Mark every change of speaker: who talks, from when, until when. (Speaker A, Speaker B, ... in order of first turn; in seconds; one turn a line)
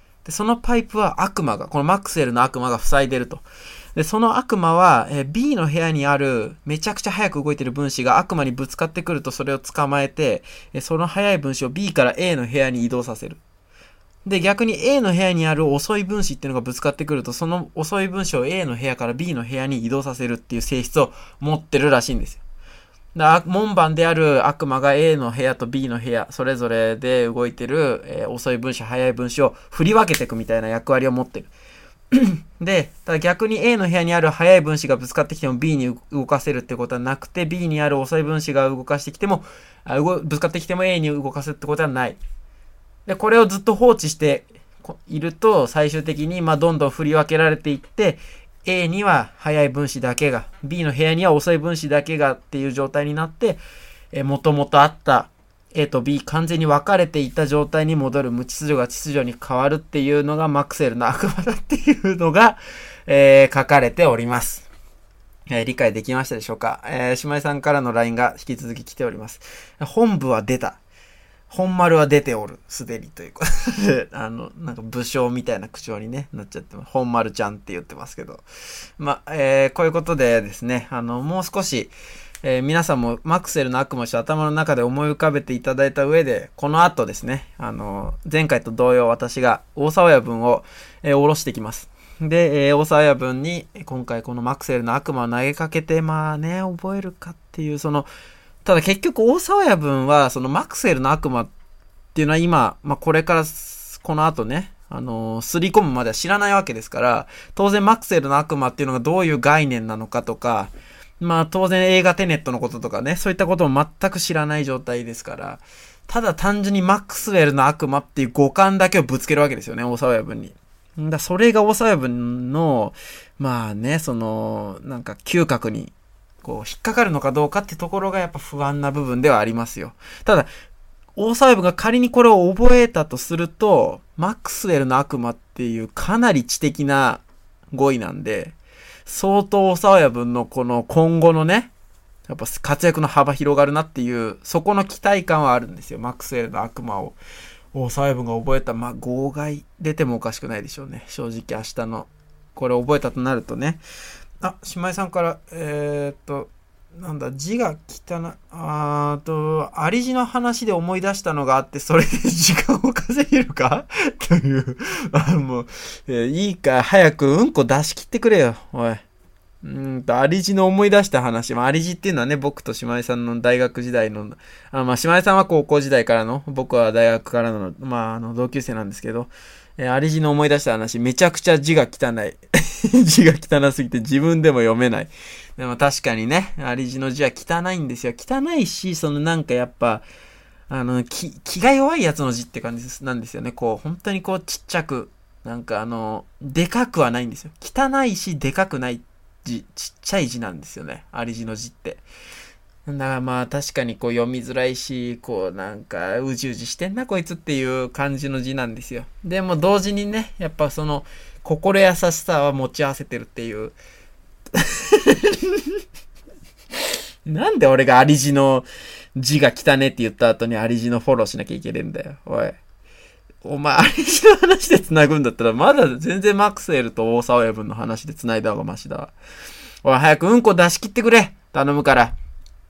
Speaker A: 0.2-13.4
Speaker A: 14.2-22.4
Speaker A: 23.1-31.5
Speaker A: 32.1-42.2
Speaker A: 43.0-53.6
Speaker A: 54.1-64.7
Speaker A: 65.5-70.8
Speaker A: 71.5-78.4
Speaker A: 79.0-98.1
Speaker A: 98.6-101.5
Speaker A: 102.1-130.5
Speaker A: 131.2-141.7
Speaker A: 142.3-147.2
Speaker A: 147.7-153.8
Speaker A: 154.4-169.0
Speaker A: 169.6-190.0
Speaker A: 190.7-202.0
Speaker A: 202.8-213.8
Speaker A: 214.5-215.8
Speaker A: 217.2-222.6
Speaker A: 223.4-229.1
Speaker A: 229.8-232.2